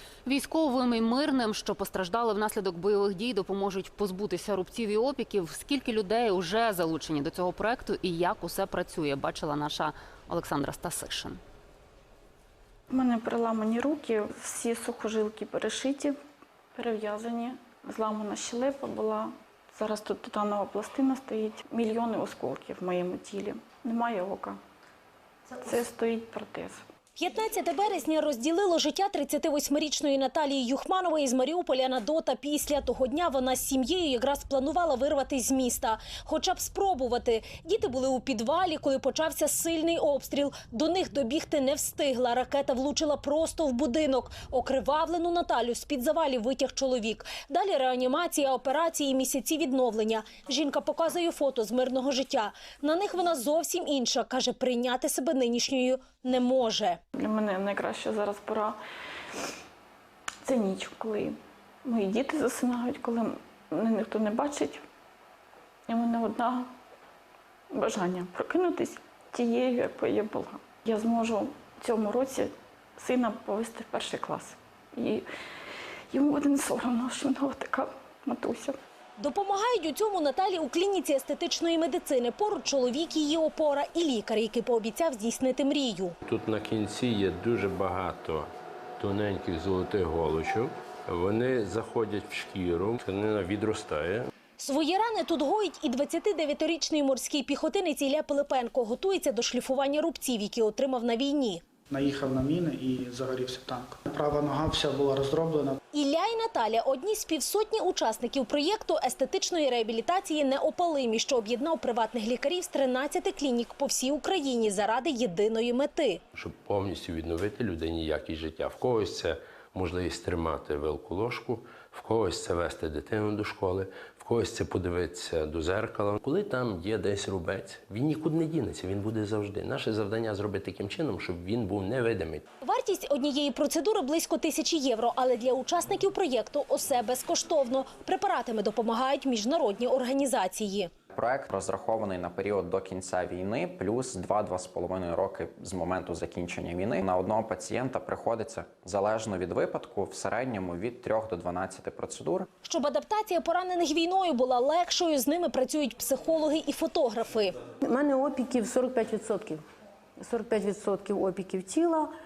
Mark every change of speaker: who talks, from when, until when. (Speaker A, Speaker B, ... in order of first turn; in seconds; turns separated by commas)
Speaker A: 0.2-11.4, Speaker B: 12.9-16.1, Speaker B: 16.7-24.6, Speaker B: 25.5-26.8, Speaker C: 27.2-57.0, Speaker B: 57.2-58.8, Speaker B: 60.5-64.8, Speaker B: 65.9-66.7, Speaker B: 67.7-75.2, Speaker B: 76.1-78.7, Speaker C: 79.2-86.1, Speaker D: 86.2-94.3, Speaker C: 94.6-101.6, Speaker E: 101.9-105.8, Speaker C: 105.9-116.2, Speaker D: 116.3-132.4, Speaker C: 132.6-140.9, Speaker F: 141.1-152.5, Speaker C: 152.6-157.5, Speaker G: 157.8-159.6, Speaker G: 160.2-162.1